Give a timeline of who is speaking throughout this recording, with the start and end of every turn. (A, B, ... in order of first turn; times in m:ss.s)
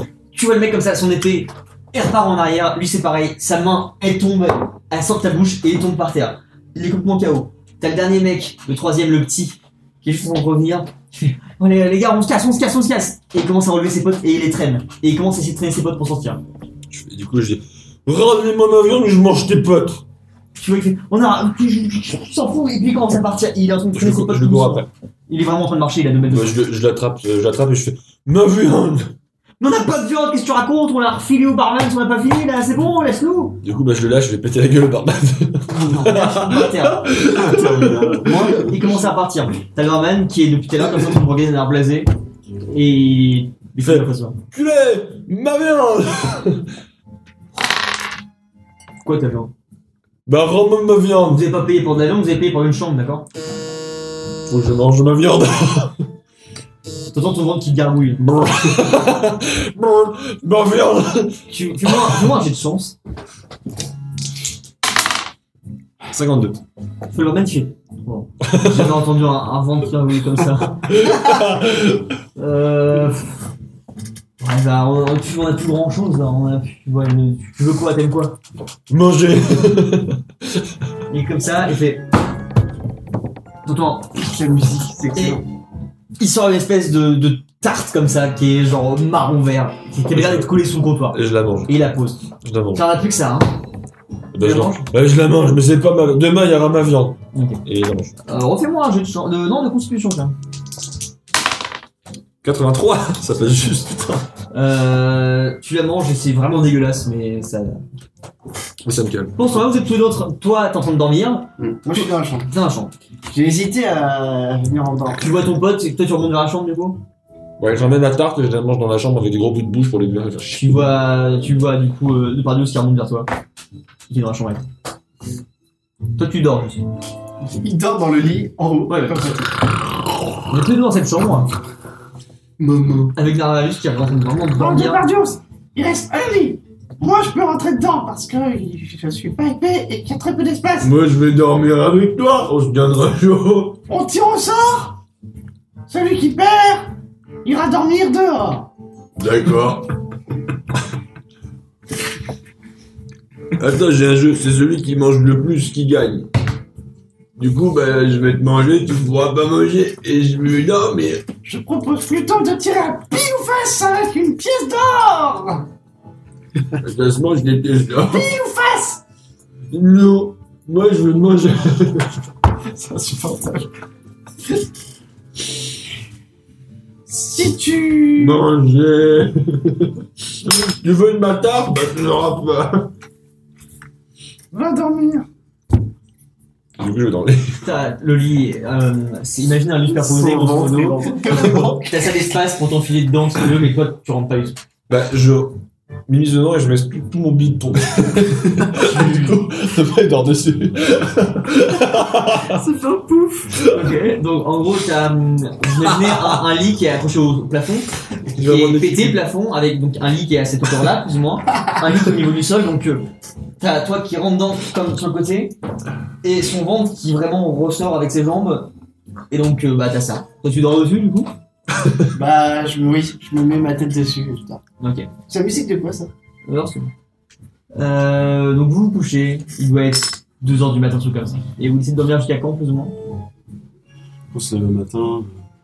0:00.3-0:16.4 A
0:16.9-0:20.0 B
0:20.6-0:26.6 A
0:23.9-0:24.9 B
0:26.3-0:29.1 B
0:29.6-0:33.6 A
0:33.6-0:38.2 B
0:35.7-0:37.2 A
0:37.2-0:38.8 C
0:38.2-0:42.1 A
0:42.7-0:44.4 A
0:43.8-0:46.7 B
0:49.0-0:49.5 A
0:50.3-0:51.4 B
0:51.3-0:53.3 A
0:54.5-0:55.9 B
0:57.1-0:58.2 A
0:58.2-1:02.2 B
1:01.5-1:03.0 A
1:06.1-1:06.6 B
1:07.1-1:10.9 A
1:08.4-1:09.0 B
1:10.9-1:12.1 B
1:12.4-1:13.4 A
1:14.4-1:18.4 A
1:18.9-1:20.2 B
1:21.1-1:22.0 A
1:23.6-1:24.2 A
1:24.2-1:25.4 D
1:25.1-1:25.4 A
1:26.2-1:33.5 A
1:30.1-1:30.5 B
1:31.1-1:31.7 B
1:32.4-1:32.8 B
1:34.3-1:38.1 B
1:34.4-1:34.9 A
1:37.3-1:37.6 A
1:38.3-1:40.3 A
1:42.4-1:44.3 B
1:44.5-1:47.8 A
1:48.8-1:49.4 B
1:49.4-1:52.9 A
1:51.8-1:52.5 D
1:53.3-1:55.3 D
1:55.1-1:57.0 A
1:57.6-2:00.6 B
2:00.4-2:03.3 A
2:04.1-2:04.6 A
2:06.2-2:06.8 A
2:07.4-2:09.5 D
2:08.9-2:09.2 A
2:10.5-2:11.5 A
2:13.2-2:15.1 A
2:14.6-2:21.0 E
2:20.8-2:23.8 B
2:23.9-2:25.0 E
2:25.9-2:26.9 E
2:27.4-2:28.7 E
2:29.2-2:29.9 B
2:33.6-2:36.3 B
2:37.4-2:41.2 B
2:41.4-2:45.7 E
2:46.8-2:48.3 B
2:48.0-2:49.0 E
2:49.7-2:52.1 B
2:52.7-2:53.7 D
2:57.1-2:58.4 E
2:58.2-3:00.0 B
3:00.5-3:02.9 B
3:04.5-3:05.3 E
3:06.8-3:07.6 B
3:07.6-3:14.6 A
3:10.0-3:11.3 C
3:11.2-3:11.9 D
3:14.9-3:22.6 B
3:18.8-3:19.4 A
3:22.4-3:23.5 D
3:23.6-3:23.9 B
3:23.6-3:33.1 A
3:28.3-3:29.2 B
3:33.6-3:35.5 A
3:36.2-3:38.7 A
3:39.3-3:41.3 A
3:42.1-3:44.6 D
3:44.8-3:45.1 A
3:45.3-3:46.1 D
3:46.5-3:46.9 A
3:47.8-3:53.0 A
3:54.3-3:55.4 C